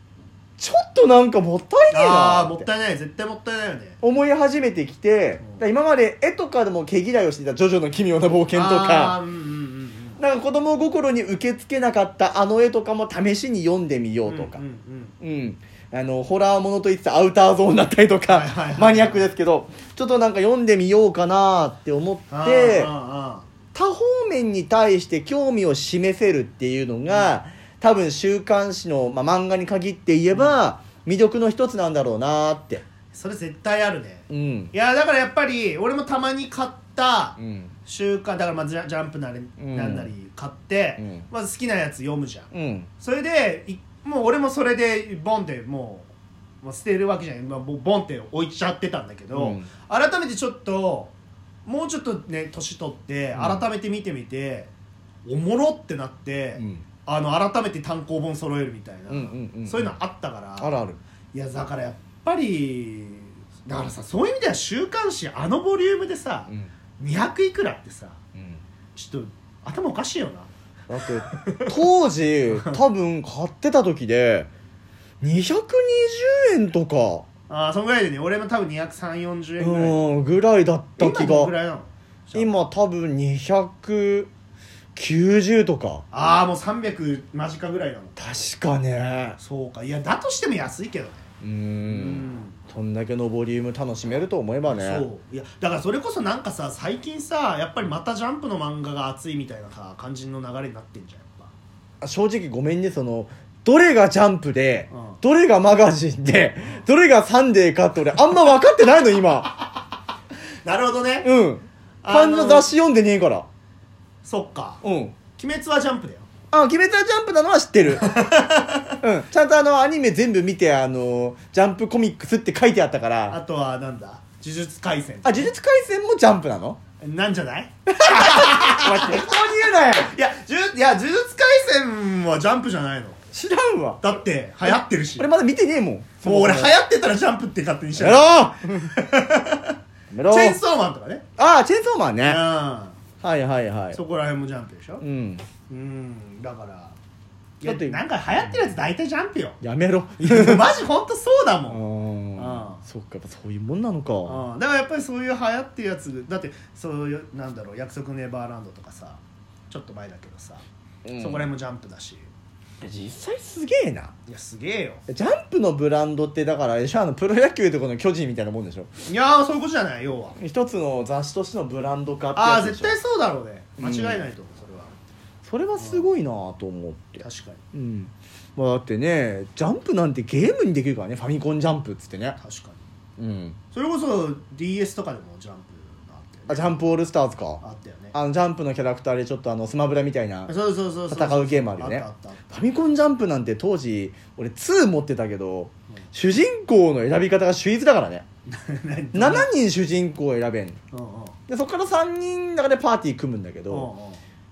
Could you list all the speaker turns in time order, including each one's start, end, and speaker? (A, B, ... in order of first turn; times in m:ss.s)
0:00.6-0:02.7 A
0:01.9-0:04.0 B
0:04.0-0:09.2 A
0:08.5-0:10.2 B
0:10.2-0:14.6 A
0:14.3-0:15.1 B
0:15.2-0:22.9 A
0:18.3-0:19.2 B
0:22.3-0:23.5 B
0:23.7-0:32.8 A
0:27.1-0:27.4 B
0:30.3-0:30.6 B
0:33.1-0:46.1 B
0:34.3-0:34.7 A
0:37.4-0:37.7 A
0:39.6-0:40.1 A
0:41.0-0:41.2 A
0:42.5-0:42.9 A
0:46.6-0:51.1 B
0:49.3-0:49.7 A
0:51.6-0:54.7 B
0:53.4-0:53.6 A
0:55.2-1:00.8 B
0:56.6-0:56.8 A
0:59.1-1:00.0 A
1:00.6-1:01.0 A
1:01.3-1:08.2 B
1:08.4-1:08.6 A
1:09.0-1:10.5 B
1:10.9-1:14.5 A
1:11.0-1:11.8 B
1:15.2-1:17.3 A
1:17.5-1:20.0 B
1:19.6-1:21.5 A
1:21.0-1:22.6 B
1:22.4-1:24.3 A
1:25.0-1:26.0 A
1:26.1-1:28.2 B
1:28.2-1:29.4 A
1:29.4-1:31.2 B
1:31.4-1:35.0 A
1:31.8-1:32.6 B
1:34.7-1:41.5 B
1:42.0-1:49.6 A
1:44.9-1:45.2 B
1:50.6-1:51.3 B
1:51.2-1:53.5 A
1:52.0-1:52.7 B
1:54.2-1:54.8 B
1:54.8-1:55.2 A
1:55.4-1:56.3 B
1:56.5-1:58.2 A
1:57.9-1:59.0 B
1:59.0-2:03.4 A
2:03.3-2:05.5 B
2:05.2-2:06.8 A
2:07.0-2:09.3 B
2:08.0-2:10.1 A
2:09.9-2:13.2 B
2:13.3-2:16.7 A
2:14.0-2:15.3 B
2:16.2-2:19.8 B
2:18.0-2:18.9 A
2:20.1-2:20.6 A
2:20.3-2:21.2 B
2:21.4-2:22.4 A
2:22.2-2:23.0 B
2:23.2-2:24.0 A
2:23.9-2:25.0 B
2:25.0-2:25.5 A
2:25.7-2:27.0 B
2:27.6-2:29.6 B
2:27.6-2:28.0 A
2:29.6-2:30.7 A
2:30.2-2:31.8 B
2:31.7-2:34.4 A
2:32.4-2:32.8 B
2:34.3-2:40.6 B
2:41.0-2:41.5 A
2:41.2-2:42.3 B
2:42.8-2:44.1 A
2:44.3-2:45.0 B
2:45.1-2:48.9 A
2:49.1-2:50.4 B
2:50.4-2:53.0 A
2:52.4-2:54.9 B
2:53.8-2:54.3 A
2:55.4-3:02.4 A
2:55.8-2:56.1 B
2:57.2-2:57.6 B
3:02.4-3:02.8 B
3:03.2-3:03.6 A
3:03.7-3:06.8 B
3:06.5-3:07.6 A
3:07.6-3:08.2 B
3:08.1-3:10.5 A
3:10.5-3:12.4 B
3:11.1-3:18.2 A
3:18.5-3:19.5 B
3:19.1-3:20.8 A
3:20.9-3:21.4 B
3:21.5-3:23.9 A
3:23.7-3:24.2 B